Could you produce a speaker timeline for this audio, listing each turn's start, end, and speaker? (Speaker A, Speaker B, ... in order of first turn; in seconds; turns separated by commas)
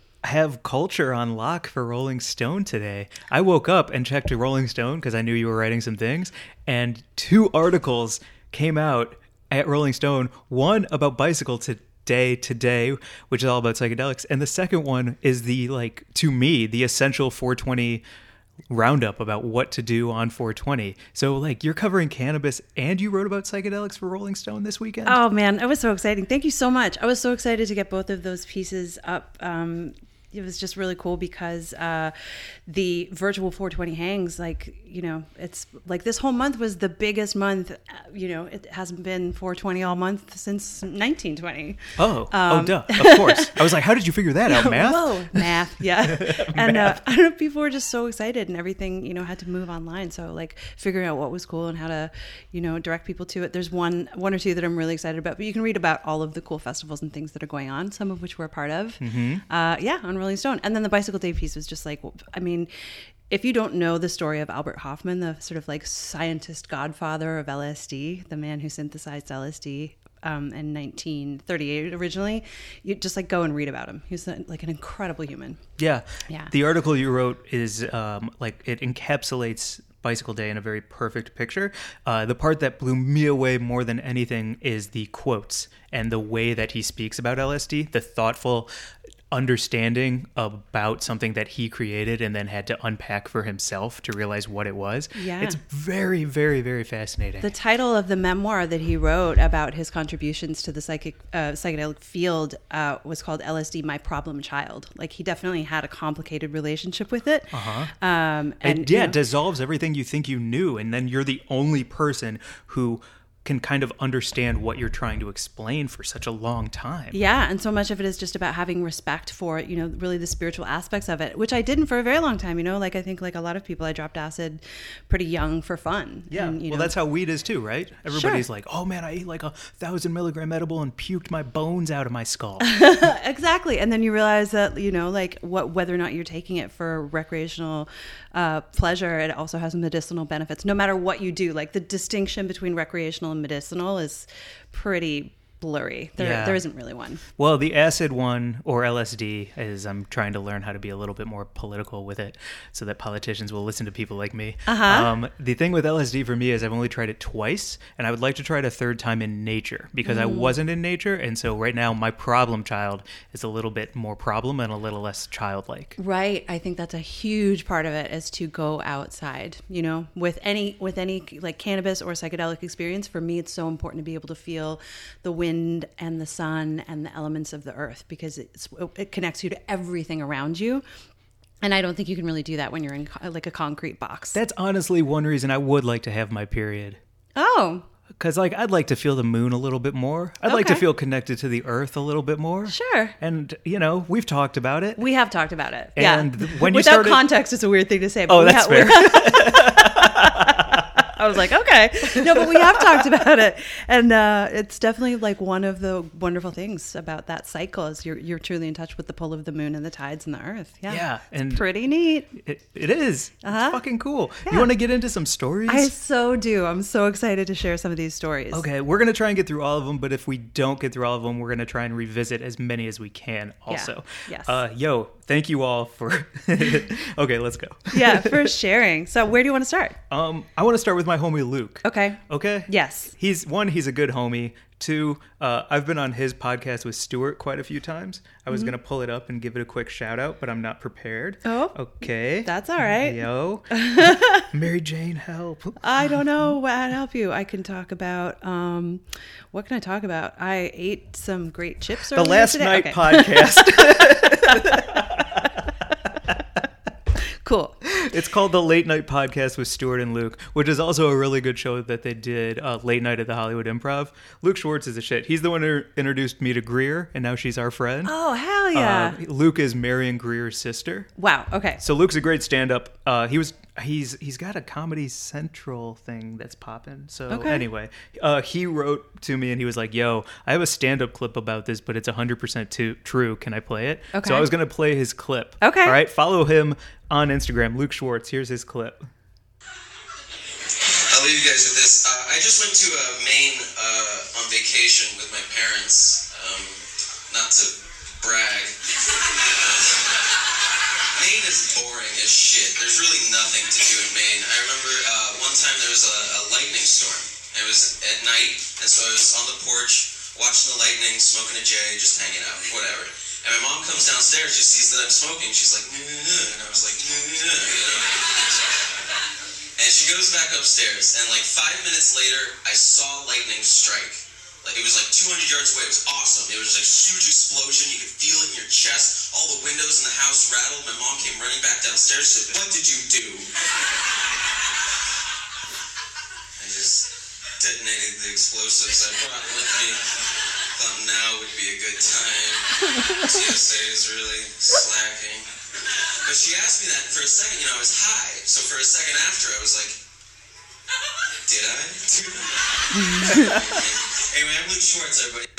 Speaker A: 0.2-18.0, Speaker A: 18.7-25.2, Speaker B: 25.1-32.1, Speaker B: 32.7-43.6, Speaker A: 42.0-47.0, Speaker B: 44.5-62.7, Speaker A: 59.0-59.4, Speaker B: 63.3-75.6, Speaker A: 75.8-88.7, Speaker A: 89.3-97.5, Speaker B: 95.2-95.6, Speaker B: 97.4-109.2, Speaker A: 107.5-107.9, Speaker A: 108.6-117.2, Speaker B: 117.1-126.9, Speaker A: 126.3-132.7, Speaker B: 128.1-128.4, Speaker B: 132.6-147.2, Speaker A: 146.2-146.6, Speaker A: 147.4-166.0, Speaker B: 154.7-155.1, Speaker B: 160.0-160.6, Speaker B: 166.0-180.8, Speaker B: 181.6-184.4, Speaker A: 184.3-187.0, Speaker B: 187.4-187.9, Speaker A: 188.2-195.0, Speaker B: 190.4-190.9, Speaker B: 192.7-193.2, Speaker B: 195.0-212.3, Speaker A: 196.0-197.3, Speaker A: 198.3-201.0, Speaker A: 202.1-202.9, Speaker A: 210.9-211.7, Speaker A: 212.3-215.9, Speaker B: 213.4-213.8, Speaker B: 215.7-218.7, Speaker A: 218.5-228.5, Speaker B: 223.7-224.6, Speaker B: 227.9-230.0, Speaker A: 230.1-246.3, Speaker B: 231.8-233.1, Speaker B: 241.4-244.5, Speaker B: 245.8-255.0, Speaker A: 252.1-255.7, Speaker B: 257.2-257.9, Speaker A: 257.9-268.1, Speaker B: 268.1-269.2, Speaker A: 268.7-271.1, Speaker B: 271.2-271.8, Speaker A: 271.8-289.0, Speaker B: 277.3-277.6, Speaker B: 284.1-284.5, Speaker B: 285.6-286.0, Speaker C: 290.9-298.8, Speaker C: 299.4-300.1, Speaker C: 301.1-318.5, Speaker C: 319.8-333.5, Speaker C: 336.6-340.1, Speaker C: 340.7-345.5, Speaker B: 342.9-343.2, Speaker C: 346.2-350.0, Speaker C: 351.4-355.5, Speaker B: 353.0-353.5, Speaker A: 353.2-353.7